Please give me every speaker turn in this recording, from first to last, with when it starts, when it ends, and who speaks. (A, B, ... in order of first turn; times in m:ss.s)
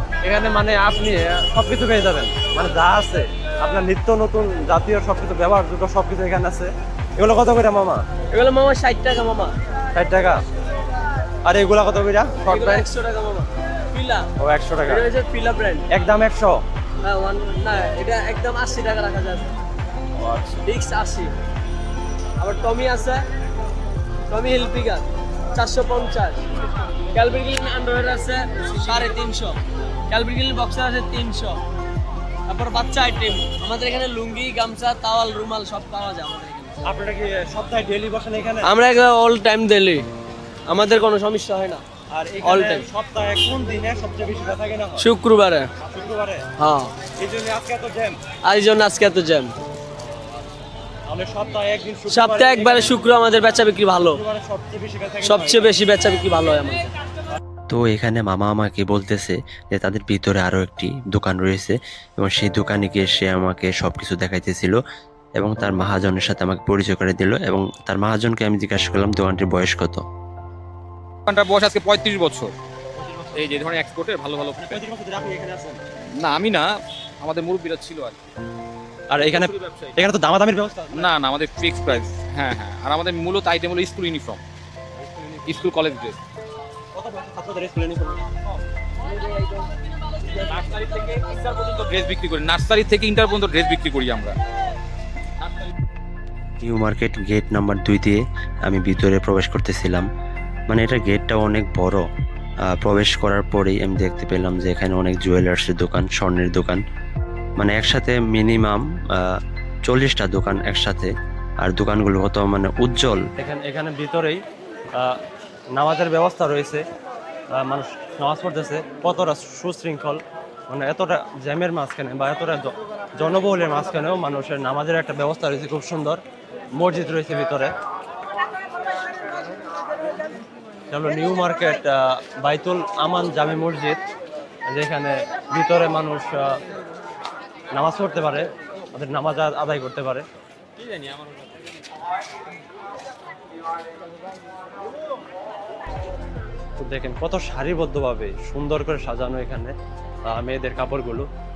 0:00.2-0:08.0 A
0:08.3-0:09.5 B
0:09.9-0:10.4 A
0:11.5-0:12.8 A
0:12.4-0:14.3 B
0:14.4-0:15.0 A
0:14.9-0:15.8 B
0:15.9-0:16.6 A
0:17.0-0:19.5 B
0:20.2-0:20.6 A
0:20.7-0:21.3 B
0:22.4-0:23.2 B
0:24.3-0:26.4 B
0:27.1-0:31.6 B
0:32.5-0:36.8 B
0:36.8-0:38.7 A
0:38.6-0:40.0 B
0:40.7-0:41.8 B
0:42.1-0:45.0 A
0:42.4-0:42.8 B
0:45.0-0:45.7 B
0:45.8-0:46.4 A
0:46.6-0:46.9 B
0:47.2-0:48.2 A
0:48.4-0:49.5 B
0:51.1-0:53.0 A
0:52.1-0:54.2 B
0:54.1-0:55.7 A
0:55.2-0:56.9 B
0:57.7-1:04.8 C
1:05.4-1:10.0 C
1:11.2-1:12.5 D
1:13.0-1:13.6 A
1:13.3-1:14.8 D
1:14.6-1:15.8 A
1:16.2-1:18.2 D
1:19.1-1:21.1 A
1:19.2-1:19.9 D
1:20.9-1:24.4 D
1:25.1-1:25.4 A
1:25.4-1:26.2 D
1:26.9-1:28.3 A
1:30.5-1:34.4 D
1:36.6-1:40.0 C
1:40.7-1:42.0 C
1:42.7-1:46.8 C
1:47.6-1:49.3 C
1:49.9-1:51.1 C
1:51.6-1:53.2 C
1:53.4-1:54.4 A
1:55.8-1:56.8 A
1:57.6-2:06.2 A
2:06.8-2:07.7 A
2:10.9-2:14.0 A
2:14.6-2:16.5 A
2:17.7-2:20.3 A
2:26.8-2:29.7 A
2:30.3-2:31.3 A